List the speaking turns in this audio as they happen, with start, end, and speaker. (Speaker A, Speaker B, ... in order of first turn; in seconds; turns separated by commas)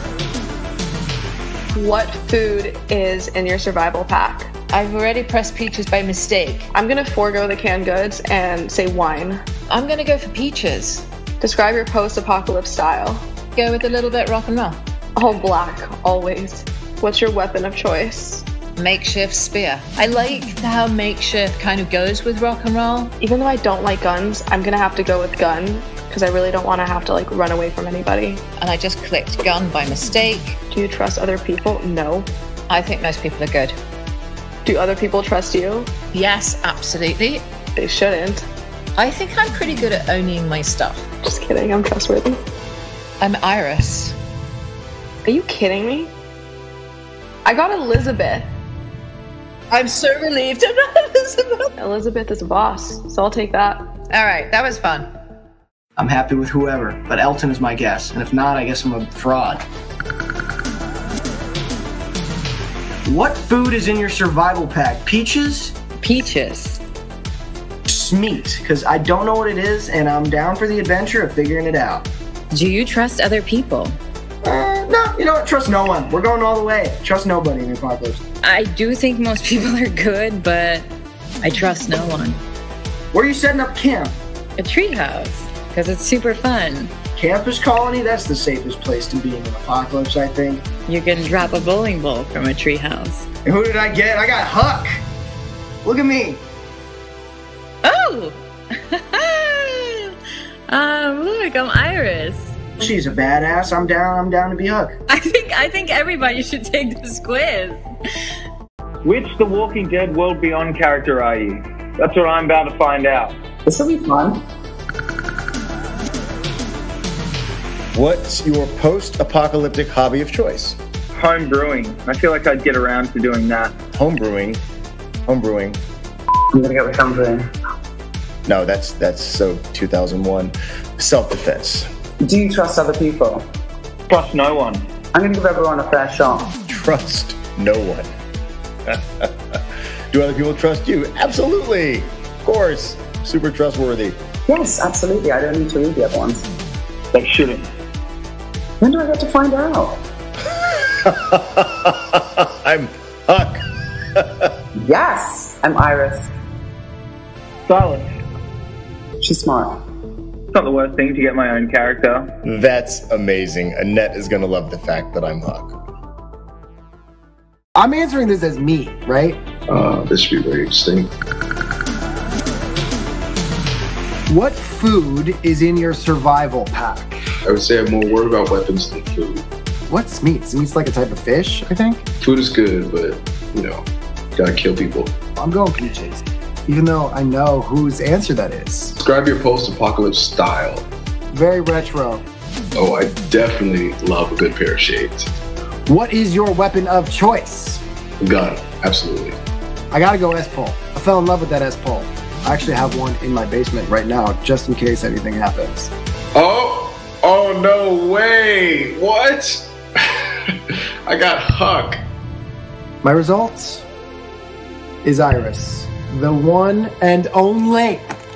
Speaker A: 1.7-4.5, Speaker B: 4.7-6.7, Speaker A: 6.7-9.4, Speaker B: 9.7-11.0, Speaker A: 11.4-13.2, Speaker B: 13.6-14.8, Speaker A: 15.2-18.4, Speaker B: 18.8-23.1, Speaker A: 23.2-28.4, Speaker B: 28.6-30.6, Speaker A: 30.7-32.3, Speaker B: 32.7-33.8, Speaker A: 34.6-35.9, Speaker B: 36.1-37.4, Speaker A: 37.8-38.4, Speaker B: 39.0-41.1, Speaker A: 41.2-42.4, Speaker B: 43.2-44.2, Speaker A: 45.3-46.1, Speaker A: 47.5-48.5, Speaker B: 49.7-51.7, Speaker A: 51.8-53.8, Speaker B: 54.1-55.1, Speaker C: 56.0-59.6, Speaker C: 63.1-65.7, Speaker D: 66.0-66.8, Speaker C: 67.9-72.1, Speaker D: 72.5-74.0, Speaker C: 74.4-78.2, Speaker D: 78.4-80.9, Speaker D: 81.4-82.4, Speaker C: 83.1-84.2, Speaker D: 84.6-86.9, Speaker C: 87.2-90.6, Speaker D: 90.9-93.3, Speaker C: 93.5-95.0, Speaker C: 95.8-96.4, Speaker D: 97.8-98.3, Speaker D: 98.9-100.1, Speaker D: 100.7-102.6, Speaker C: 102.8-105.0, Speaker D: 105.1-107.8, Speaker E: 109.0-113.4, Speaker F: 113.7-114.4, Speaker G: 117.9-120.8, Speaker E: 121.1-123.8, Speaker G: 123.9-124.6, Speaker G: 125.3-125.8, Speaker F: 126.5-127.5, Speaker G: 128.5-131.9, Speaker F: 132.2-133.5, Speaker E: 134.1-134.9, Speaker F: 135.1-136.5, Speaker G: 136.7-138.1, Speaker G: 138.9-139.6, Speaker G: 140.1-144.2, Speaker F: 144.5-146.5, Speaker E: 147.1-147.7, Speaker F: 148.8-150.0, Speaker G: 151.0-153.6, Speaker G: 154.2-154.5, Speaker F: 154.8-156.3, Speaker E: 157.7-158.1, Speaker F: 159.2-159.8, Speaker E: 160.5-162.3, Speaker G: 162.4-165.8, Speaker H: 167.8-169.4, Speaker I: 169.7-171.1, Speaker H: 174.3-177.2, Speaker I: 177.5-179.5, Speaker H: 179.9-182.0, Speaker I: 182.2-185.1, Speaker H: 185.4-189.0, Speaker I: 189.0-190.9, Speaker H: 191.3-192.2, Speaker I: 192.8-195.3, Speaker H: 195.9-197.8, Speaker I: 198.2-199.4, Speaker H: 199.9-205.9, Speaker I: 206.4-209.7, Speaker I: 211.1-212.0, Speaker H: 213.0-213.8, Speaker H: 215.0-218.1